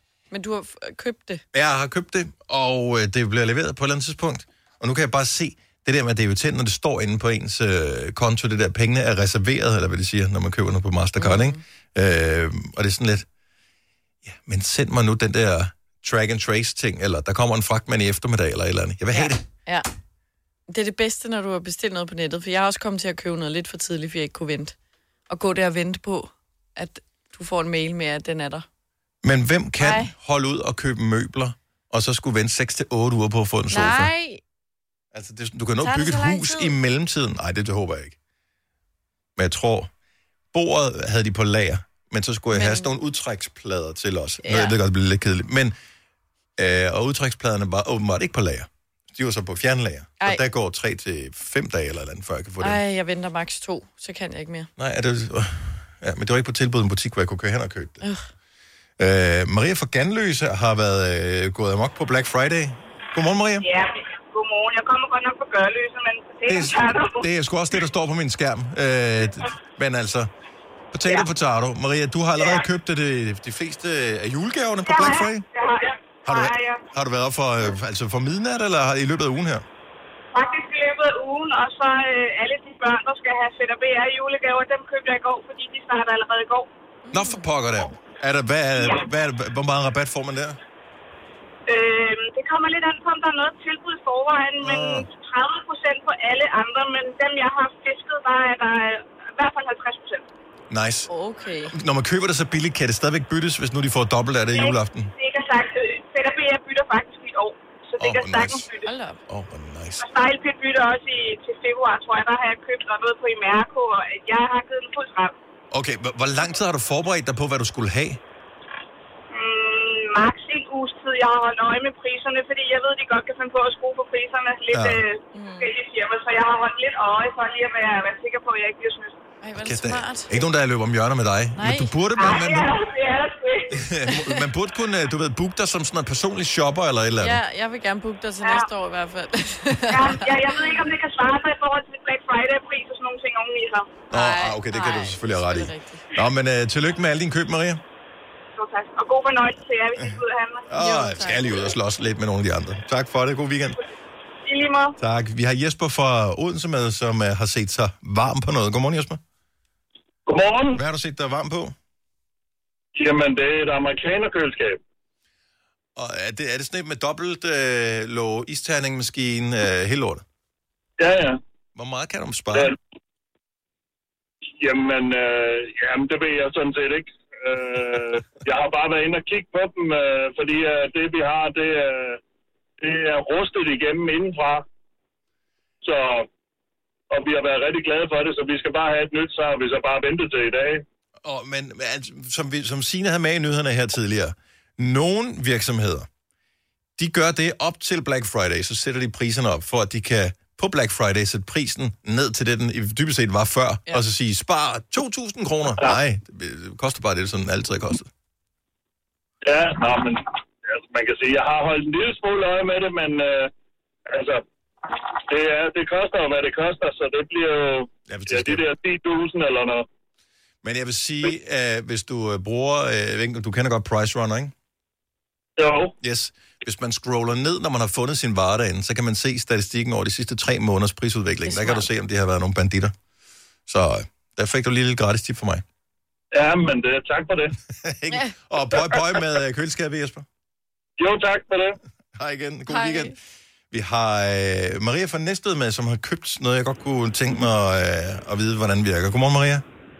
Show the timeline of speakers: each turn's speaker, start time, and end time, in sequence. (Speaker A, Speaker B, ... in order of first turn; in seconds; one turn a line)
Speaker A: 0.3-1.4
Speaker B: 1.5-13.3
Speaker A: 11.2-11.6
Speaker B: 14.2-19.4
Speaker A: 19.1-19.9
Speaker A: 20.7-24.8
Speaker A: 25.3-28.6
Speaker B: 29.2-34.1
Speaker A: 29.8-30.1
Speaker A: 33.7-34.4
Speaker B: 35.1-38.2
Speaker A: 35.8-36.7
Speaker B: 39.4-39.9
Speaker B: 40.5-45.8
Speaker A: 42.5-42.9
Speaker A: 44.4-44.8
Speaker B: 46.6-52.8
Speaker A: 52.6-54.7
Speaker B: 54.8-58.0
Speaker A: 58.0-58.3
Speaker B: 59.0-63.7
Speaker C: 63.6-67.2
Speaker B: 66.5-70.3
Speaker B: 70.9-75.5
Speaker C: 74.9-76.8
Speaker B: 76.3-79.7
Speaker C: 80.3-86.7
Speaker A: 87.0-87.5
Speaker B: 87.1-90.6
Speaker C: 91.7-100.2
Speaker B: 94.6-95.1
Speaker B: 100.7-101.1
Speaker A: 101.1-101.8
Speaker B: 101.7-105.1
Speaker C: 104.5-108.9
Speaker B: 108.0-108.7
Speaker A: 108.8-109.2
Speaker B: 109.3-110.1
Speaker C: 110.0-115.3
Speaker B: 115.7-118.2
Speaker C: 119.3-129.1
Speaker B: 124.7-125.0
Speaker A: 125.3-125.7
Speaker A: 129.4-130.3
Speaker B: 129.6-132.7
Speaker A: 131.6-131.9
Speaker C: 132.2-133.7
Speaker B: 133.7-137.4
Speaker A: 134.1-134.4
Speaker A: 137.2-140.7
Speaker C: 138.4-138.7
Speaker C: 139.9-144.0
Speaker B: 144.1-147.8
Speaker A: 144.1-146.1
Speaker C: 148.6-150.7
Speaker B: 150.7-153.8
Speaker A: 150.8-151.6
Speaker C: 154.4-155.0
Speaker B: 155.0-159.2
Speaker D: 160.3-160.8
Speaker B: 160.8-161.8
Speaker D: 163.0-164.8
Speaker B: 166.0-170.2
Speaker D: 171.0-171.4
Speaker B: 171.8-172.8
Speaker D: 174.6-182.2
Speaker D: 182.8-184.7
Speaker D: 185.8-186.3
Speaker D: 187.1-190.8
Speaker B: 191.2-196.1
Speaker B: 197.0-208.1
Speaker D: 209.4-213.5
Speaker D: 214.1-219.8
Speaker B: 218.1-218.6
Speaker B: 220.6-224.5
Speaker D: 225.6-225.9
Speaker B: 226.0-232.9
Speaker A: 231.5-231.8
Speaker B: 233.7-235.6
Speaker D: 236.3-237.5
Speaker B: 237.7-240.3
Speaker D: 241.0-241.8
Speaker B: 242.2-243.2
Speaker A: 242.7-243.1
Speaker B: 243.7-249.6